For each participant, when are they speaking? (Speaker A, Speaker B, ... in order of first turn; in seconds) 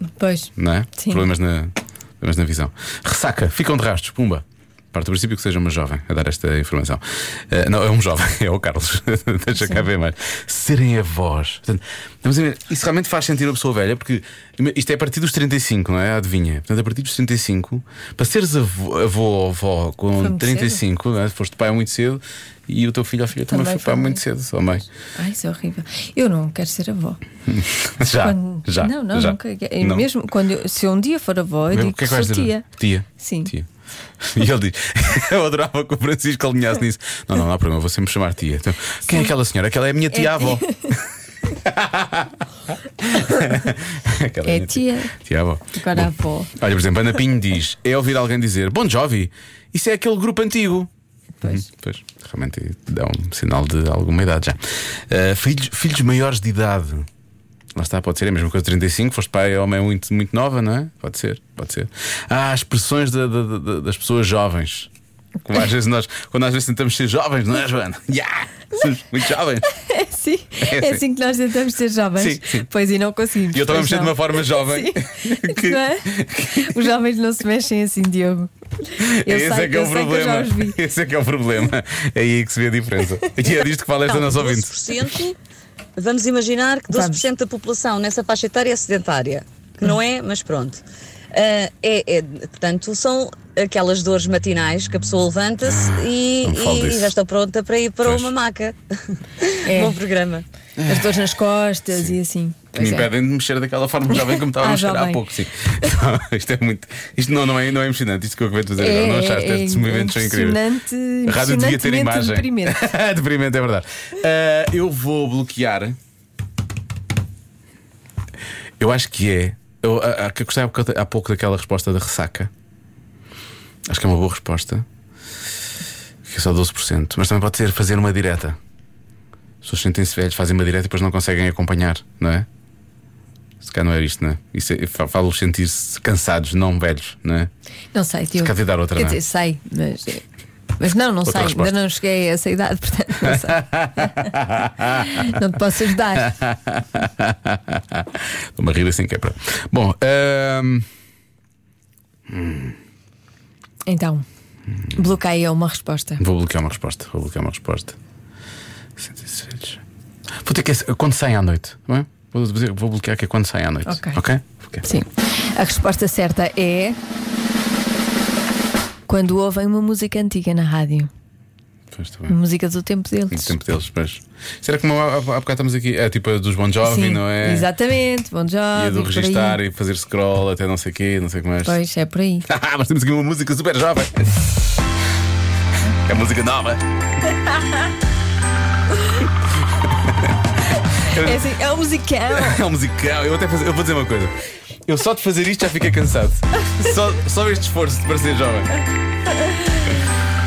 Speaker A: 0.2-1.3, 9.6-9.8, 20.2-20.8, 23.5-24.2, 25.2-27.2, 28.2-32.7, 33.2-33.5, 40.1-40.9, 44.5-45.1, 45.8-46.5, 69.8-80.8, 86.9-87.2, 99.6-100.0, 100.9-103.1, 104.2-105.2, 108.8-112.8, 137.9-140.2, 140.8-144.3, 145.0-146.3, 153.9-154.2, 154.9-156.2, 163.9-164.2, 164.8-167.0, 169.1-171.1, 172.3-173.6, 176.8-179.6, 181.7-182.5, 191.0-192.6, 199.5-199.9
Speaker B: 0.6-24.9, 27.5-30.1, 31.7-33.7, 34.2-42.4, 43.0-50.9, 51.4-57.1, 57.8-64.9, 65.5-69.7, 70.6-71.0, 72.2-72.7, 73.5-76.8, 79.0-84.9, 95.6-97.2, 98.0-98.3, 100.8-101.3, 101.9-102.2, 102.8-110.6, 111.3-116.0, 118.8-122.5, 123.9-124.9, 126.3-128.6, 129.6-132.5, 133.6-137.5, 138.4-139.2, 141.3-141.7, 143.2-145.4, 146.2-150.9, 152.3-152.8, 156.2-158.0, 159.0-159.8, 160.4-164.9, 171.9-172.4, 173.3-177.7, 178.7-181.8, 182.5-184.3, 186.1-186.8, 189.7-190.4, 191.0-191.4, 192.3-194.3, 194.9-198.7
Speaker C: 84.0-85.4, 86.0-100.5